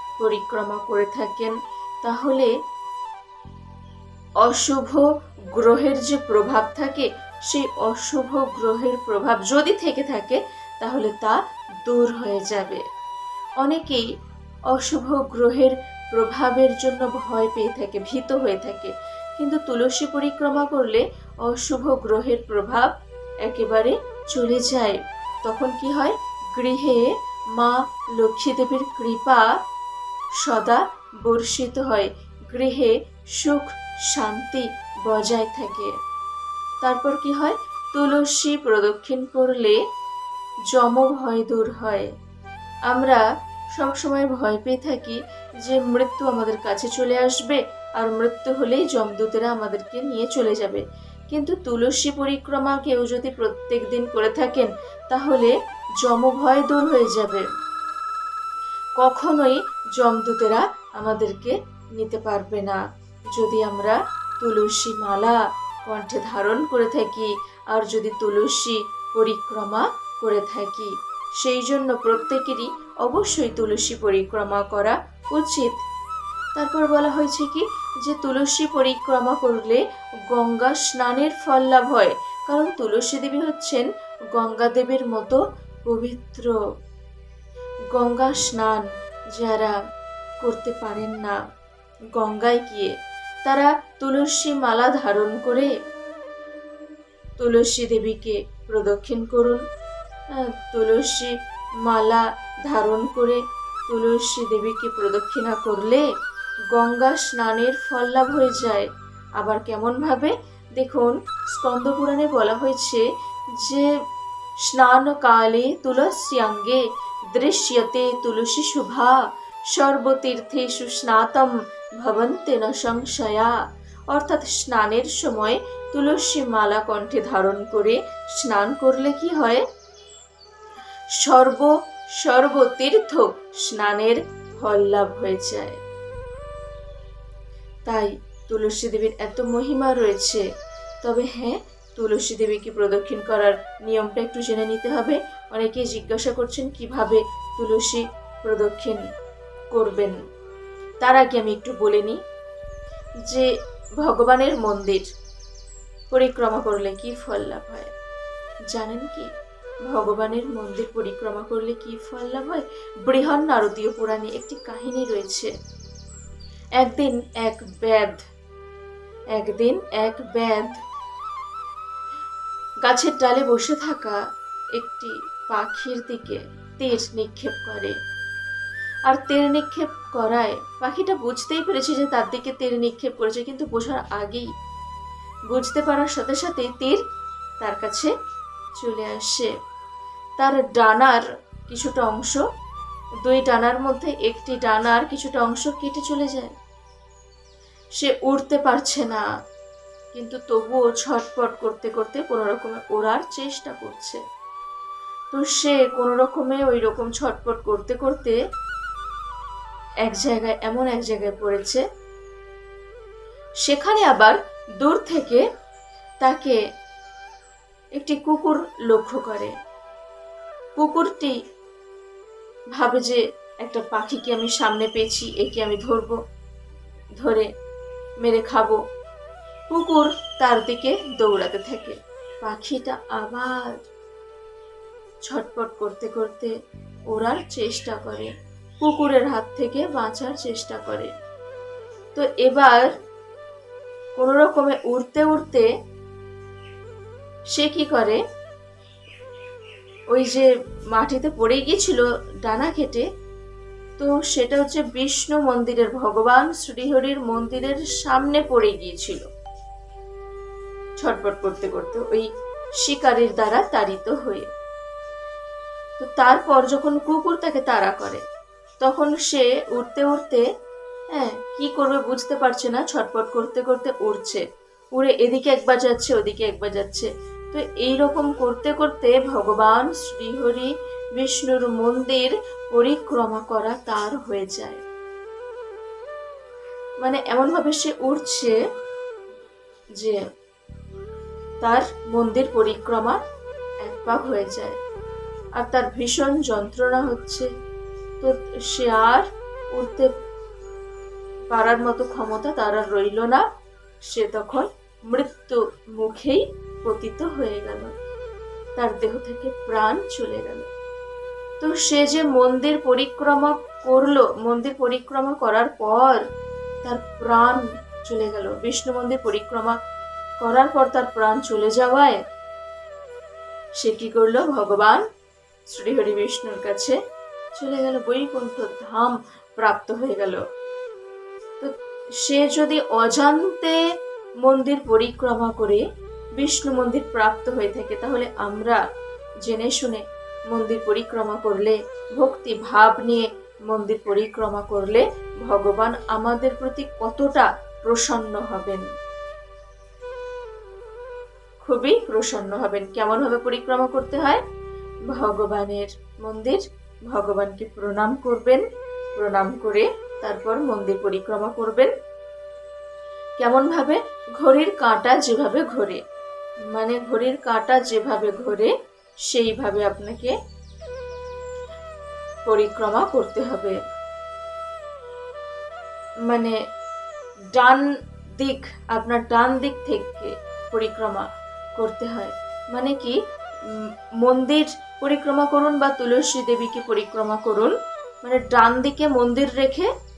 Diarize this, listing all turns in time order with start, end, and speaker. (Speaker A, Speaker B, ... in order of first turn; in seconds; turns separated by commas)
Speaker A: 0.2-2.5, Speaker A: 4.4-12.8, Speaker A: 13.6-14.1, Speaker A: 14.7-29.5, Speaker A: 30.4-35.9, Speaker A: 36.8-39.8, Speaker A: 40.7-42.1, Speaker A: 42.9-57.5, Speaker A: 59.0-75.8, Speaker A: 76.5-86.6, Speaker A: 87.9-89.8, Speaker A: 90.4-91.4, Speaker A: 92.1-92.9, Speaker A: 93.5-95.7, Speaker A: 97.4-99.6, Speaker A: 100.3-106.1, Speaker A: 106.7-113.9, Speaker A: 114.6-119.2, Speaker A: 119.7-123.5, Speaker A: 124.1-129.7, Speaker A: 131.2-135.8, Speaker A: 137.9-140.4, Speaker A: 141.0-149.0, Speaker A: 149.7-150.2, Speaker A: 151.0-152.2, Speaker A: 153.2-155.1, Speaker A: 156.1-157.9, Speaker A: 158.7-159.3, Speaker A: 159.8-165.5, Speaker A: 166.8-168.2, Speaker A: 169.3-170.8, Speaker A: 172.8-174.2, Speaker A: 174.8-178.0, Speaker A: 179.1-184.5, Speaker A: 185.5-187.0, Speaker A: 187.6-188.1, Speaker A: 188.8-189.5, Speaker A: 190.4-192.4, Speaker A: 193.2-196.6, Speaker A: 198.0-199.2, Speaker A: 200.1-204.2, Speaker A: 205.3-208.4, Speaker A: 210.0-211.8, Speaker A: 213.6-215.4, Speaker A: 216.2-216.6, Speaker A: 217.9-219.5, Speaker A: 220.8-221.4, Speaker A: 222.7-226.2, Speaker A: 227.2-227.5, Speaker A: 228.2-228.8, Speaker A: 229.7-233.8, Speaker A: 235.2-236.5, Speaker A: 237.1-241.1, Speaker A: 242.2-243.0, Speaker A: 244.2-245.7, Speaker A: 247.5-248.2, Speaker A: 250.1-253.1, Speaker A: 254.0-259.3, Speaker A: 261.0-264.5, Speaker A: 266.0-268.2, Speaker A: 268.8-270.4, Speaker A: 271.1-284.8, Speaker A: 287.0-288.6, Speaker A: 291.6-293.2, Speaker A: 293.8-294.8, Speaker A: 295.6-297.5, Speaker A: 298.2-300.1, Speaker A: 301.5-303.4, Speaker A: 304.0-307.9, Speaker A: 308.8-310.7, Speaker A: 311.6-316.2, Speaker A: 316.8-319.8, Speaker A: 320.4-322.2, Speaker A: 323.8-325.0, Speaker A: 325.7-327.0, Speaker A: 327.6-330.4, Speaker A: 331.6-333.8, Speaker A: 334.4-335.8, Speaker A: 336.4-338.8, Speaker A: 339.4-348.9, Speaker A: 351.6-354.4, Speaker A: 355.1-361.9, Speaker A: 363.4-366.0, Speaker A: 366.7-368.8, Speaker A: 369.3-370.4, Speaker A: 372.5-373.8, Speaker A: 376.3-376.6, Speaker A: 377.5-389.9